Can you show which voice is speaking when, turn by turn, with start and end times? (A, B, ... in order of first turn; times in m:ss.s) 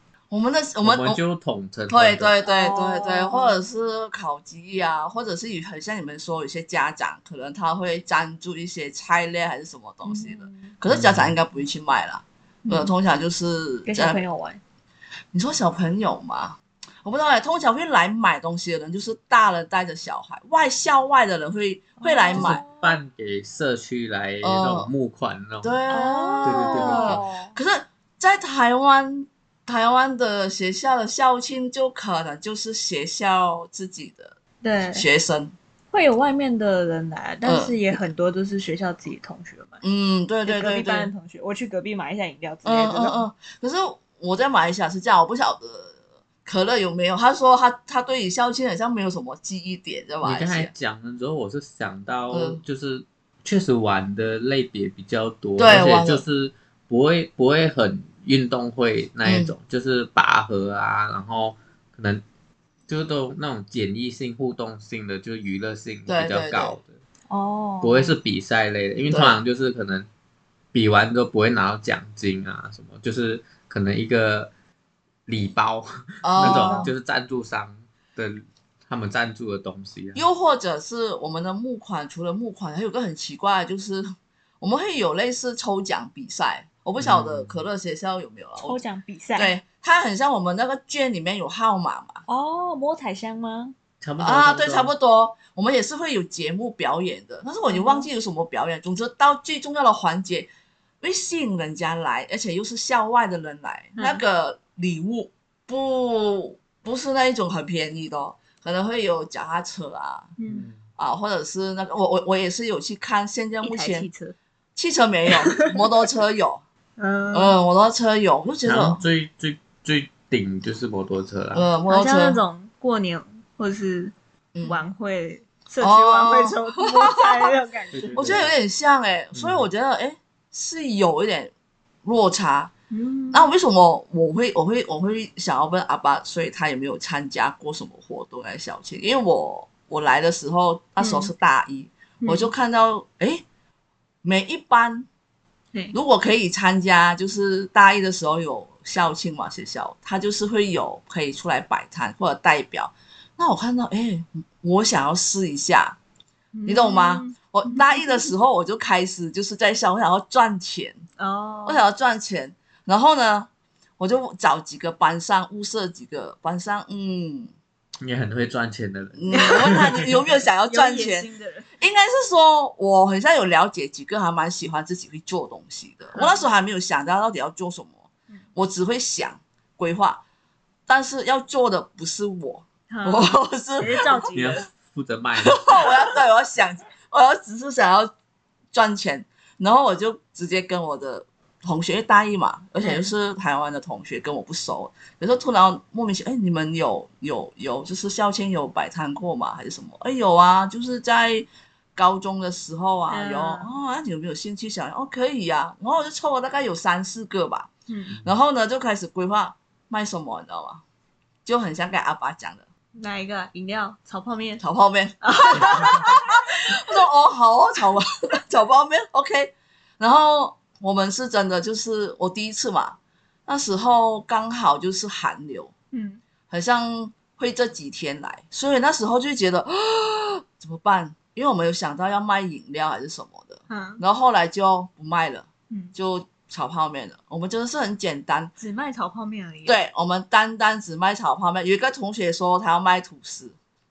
0:00.3-0:01.2 A
0:00.8-0:02.3 B
0:01.9-0:14.2 A
0:02.4-0:03.6 C
0:10.0-0:10.7 C
0:10.9-0:11.4 B
0:12.6-0:12.9 C
0:13.8-0:14.6 C
0:15.3-0:22.6 A
0:22.0-0:23.0 C
0:22.3-0:25.8 B
0:24.4-0:24.9 A
0:25.6-0:34.3 A
0:25.9-0:27.6 C
0:26.4-0:27.2 B
0:34.6-0:35.1 C
0:34.9-0:35.5 A
0:35.9-0:39.8 C
0:37.4-0:38.0 A
0:39.8-0:41.1 A
0:40.4-0:43.2 C
0:42.6-0:50.7 A
0:50.2-1:02.2 B
0:52.3-0:52.6 A
0:55.6-0:56.2 A
0:59.2-0:59.5 A
1:02.9-1:07.0 B
1:06.1-1:06.8 A
1:07.3-1:08.2 C
1:07.8-1:10.1 B
1:09.1-1:09.4 A
1:10.7-1:14.5 B
1:15.2-1:20.2 B
1:16.2-1:16.9 A
1:16.4-1:16.9 C
1:20.1-1:24.1 A
1:24.6-1:28.8 A
1:27.0-1:27.6 B
1:28.6-1:29.5 C
1:29.3-1:32.2 A
1:32.3-1:33.7 C
1:34.0-1:34.9 B
1:34.2-1:40.5 A
1:37.7-1:38.1 C
1:41.0-1:50.3 A
1:44.0-1:44.2 C
1:50.4-1:50.7 C
1:50.4-1:50.8 B
1:51.0-1:54.1 A
1:53.6-1:54.4 C
1:54.8-1:56.6 A
1:55.3-1:55.7 C
1:57.0-1:57.6 C
1:57.3-1:59.0 A
1:58.6-2:01.7 B
2:01.5-2:02.4 A
2:01.9-2:08.4 C
2:04.5-2:04.8 A
2:05.8-2:07.5 A
2:07.9-2:08.5 B
2:08.1-2:11.5 A
2:09.3-2:09.7 B
2:12.0-2:12.7 A
2:12.9-2:13.5 C
2:13.3-2:23.4 A
2:21.0-2:21.3 C
2:22.2-2:22.5 C
2:24.2-2:25.1 A
2:25.9-2:36.0 A
2:36.5-2:38.3 C
2:36.6-2:41.0 A
2:41.2-2:41.8 C
2:41.6-2:47.5 A
2:48.0-2:50.1 B
2:49.1-2:58.0 A
2:49.3-2:49.8 C
2:50.6-2:51.7 C
2:56.1-2:56.4 C
2:58.5-3:00.2 A
3:00.9-3:04.3 A
3:02.9-3:04.6 C
3:04.3-3:05.8 B
3:05.4-3:08.1 A
3:08.7-3:27.7 A
3:12.8-3:13.1 C
3:23.1-3:23.7 C
3:27.9-3:28.2 C
3:28.2-3:30.8 A
3:31.4-3:32.6 A
3:33.0-3:34.6 C
3:34.6-3:45.7 A
3:35.2-3:36.3 C
3:45.9-3:46.2 C
3:46.5-3:58.5 A
3:53.7-3:54.0 C
3:58.6-3:59.8 C
3:59.6-4:03.6 A